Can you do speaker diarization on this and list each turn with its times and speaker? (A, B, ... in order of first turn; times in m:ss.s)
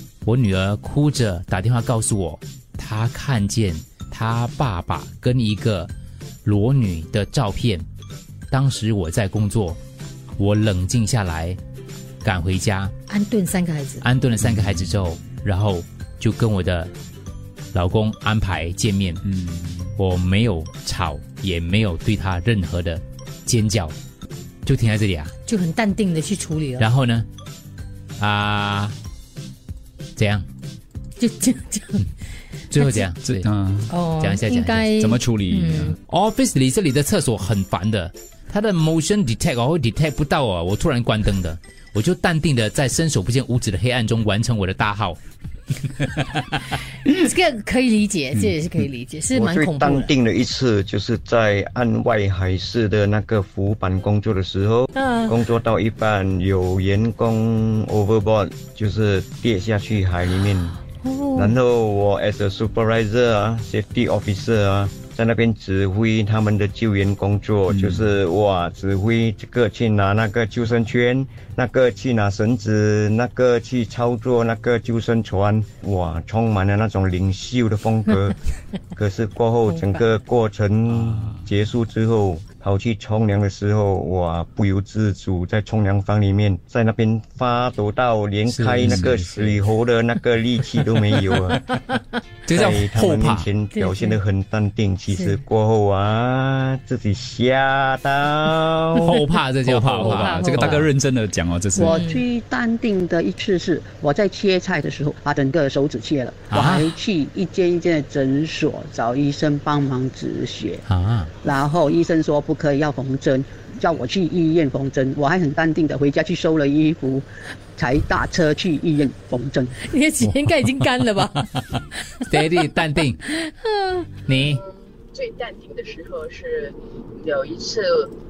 0:00.2-0:05.9 A
0:06.4-0:07.8 A
0:08.5-0:09.8 A
0:10.4-0:11.6 A
0:12.2-0:12.9 A
0:13.1-0:14.0 B
0:14.0-0:16.9 A
0:14.4-0:14.8 C
0:17.7-0:19.2 A
0:19.3-0:19.9 C
0:20.0-0:23.9 A
0:24.6-0:25.3 A
0:25.4-0:26.8 B
0:26.8-0:27.2 A
0:28.2-0:28.9 A
0:30.2-0:30.4 A
0:31.2-0:32.0 B
0:32.7-0:33.5 A
0:32.8-0:33.1 B
0:33.2-0:33.9 C
0:33.9-0:36.0 B
0:34.2-0:34.9 A
0:34.9-0:35.9 C
0:35.8-0:45.2 A
0:47.0-0:50.1 B
0:49.3-1:00.8 D
0:55.0-0:55.3 B
1:01.0-1:01.6 B
1:01.3-1:18.4 D
1:07.7-1:08.1 C
1:19.0-1:31.6 D
1:20.9-1:21.5 C
1:28.5-1:29.6 A
1:28.8-1:29.5 C
1:32.5-1:33.5 C
1:32.5-1:39.1 D
1:33.7-1:34.2 B
1:35.1-1:35.4 B
1:39.1-1:42.0 C
1:39.1-1:40.8 A
1:40.0-1:40.9 B
1:41.8-1:50.8 E
1:41.8-1:42.2 B
1:46.5-1:47.0 A
1:50.8-1:51.3 A
1:51.4-1:57.2 E
1:57.8-1:59.7 E
1:59.8-2:01.5 B
2:01.2-2:03.2 A
2:02.1-2:02.4 B
2:03.2-2:04.1 B
2:04.3-2:04.6 A
2:04.3-2:08.1 F